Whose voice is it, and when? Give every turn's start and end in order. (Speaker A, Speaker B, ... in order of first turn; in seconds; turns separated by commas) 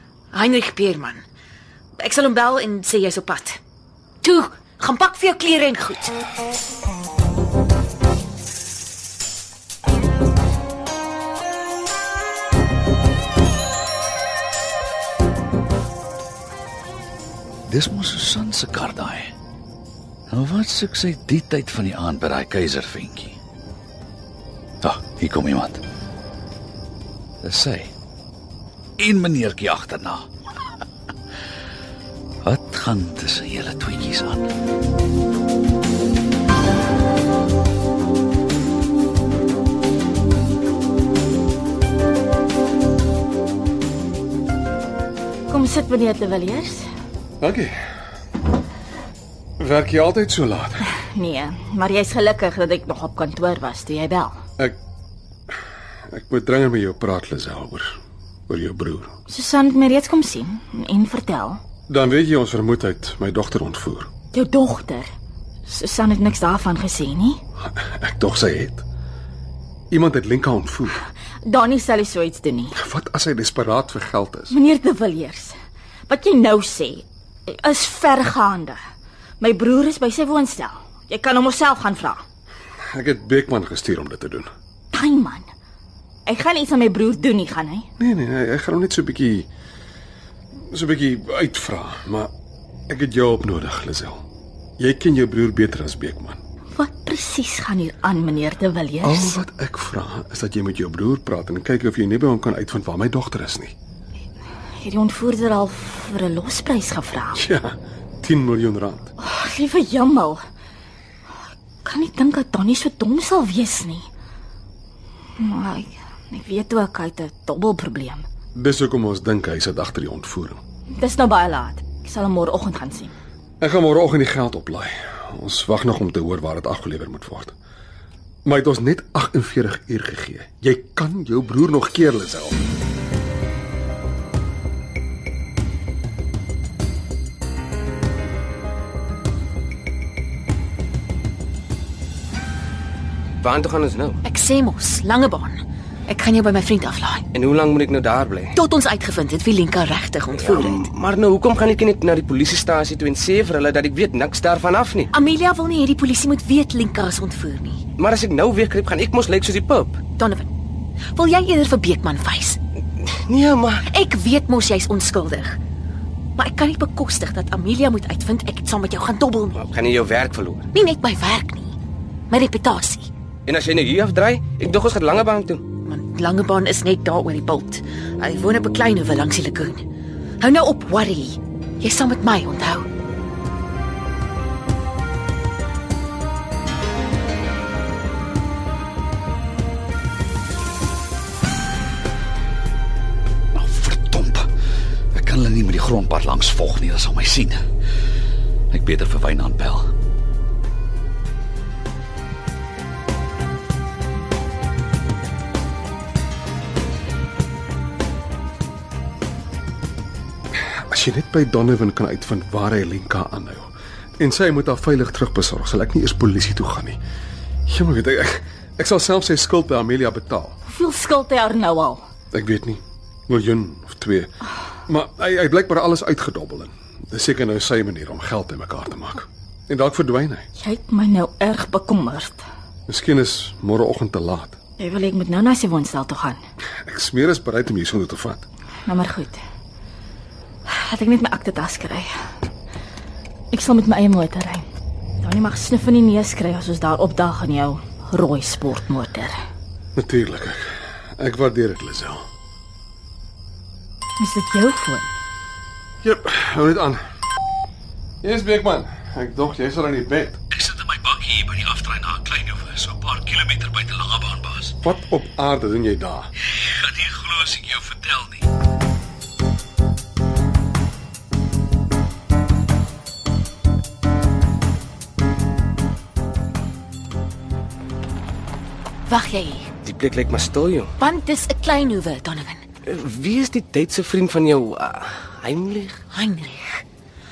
Speaker A: 0.3-1.2, Speaker A: 2.0-3.6, Speaker A: 4.2-6.2, Speaker B: 17.7-19.3, Speaker B: 20.3-23.4, Speaker B: 24.8-25.8, Speaker B: 27.4-27.9, Speaker B: 29.0-30.2, Speaker B: 32.4-34.5, Speaker C: 45.5-46.9, Speaker D: 47.4-47.8, Speaker D: 49.6-50.9, Speaker C: 51.1-54.4, Speaker D: 56.1-58.0, Speaker D: 58.5-59.1, Speaker C: 59.3-61.6, Speaker D: 61.9-64.1, Speaker C: 64.3-65.1, Speaker C: 65.7-67.4, Speaker D: 67.8-68.8, Speaker D: 69.9-71.0, Speaker C: 71.5-72.7, Speaker D: 72.7-74.5, Speaker C: 74.5-75.5, Speaker C: 76.1-78.8, Speaker C: 79.4-82.2, Speaker D: 82.9-84.5, Speaker C: 84.9-85.4, Speaker C: 86.2-87.8, Speaker D: 88.0-89.5, Speaker D: 90.7-92.3, Speaker D: 92.9-94.2, Speaker D: 94.8-96.4, Speaker C: 96.7-99.4, Speaker D: 99.0-103.7, Speaker C: 104.8-107.4, Speaker D: 107.3-109.1, Speaker C: 109.2-110.4, Speaker C: 111.8-114.1, Speaker C: 115.4-118.2, Speaker D: 118.5-120.6, Speaker C: 121.0-123.1, Speaker D: 123.6-127.5, Speaker D: 128.4-132.6, Speaker E: 143.4-144.2, Speaker A: 144.2-147.2, Speaker E: 147.3-148.6, Speaker A: 148.5-150.9, Speaker E: 150.3-155.1, Speaker A: 155.1-157.8, Speaker E: 158.0-160.0, Speaker A: 160.2-160.5, Speaker A: 161.1-162.6, Speaker E: 163.0-163.8, Speaker A: 163.8-165.6, Speaker A: 166.4-169.6, Speaker E: 169.6-170.7, Speaker A: 170.7-171.7, Speaker A: 172.3-173.1, Speaker E: 173.5-175.6, Speaker A: 175.8-179.8, Speaker A: 180.4-182.9, Speaker B: 193.5-194.5, Speaker B: 195.1-197.6, Speaker B: 198.7-199.9, Speaker D: 210.9-213.7, Speaker D: 214.2-217.0, Speaker D: 217.7-220.6, Speaker C: 220.6-222.0, Speaker D: 222.3-224.3, Speaker D: 224.9-230.5, Speaker C: 230.6-232.4, Speaker D: 232.9-234.6, Speaker C: 234.8-236.4, Speaker D: 236.8-238.4, Speaker C: 238.8-239.4, Speaker C: 240.7-242.1, Speaker C: 243.5-244.7, Speaker C: 245.2-249.4, Speaker D: 249.9-252.2, Speaker C: 254.2-255.1, Speaker D: 256.0-257.0, Speaker D: 258.2-260.4, Speaker B: 260.5-264.7, Speaker D: 264.8-266.3, Speaker B: 266.8-268.4, Speaker A: 279.1-279.7, Speaker E: 279.8-280.9, Speaker A: 281.0-282.6, Speaker E: 282.9-286.0, Speaker A: 286.1-286.8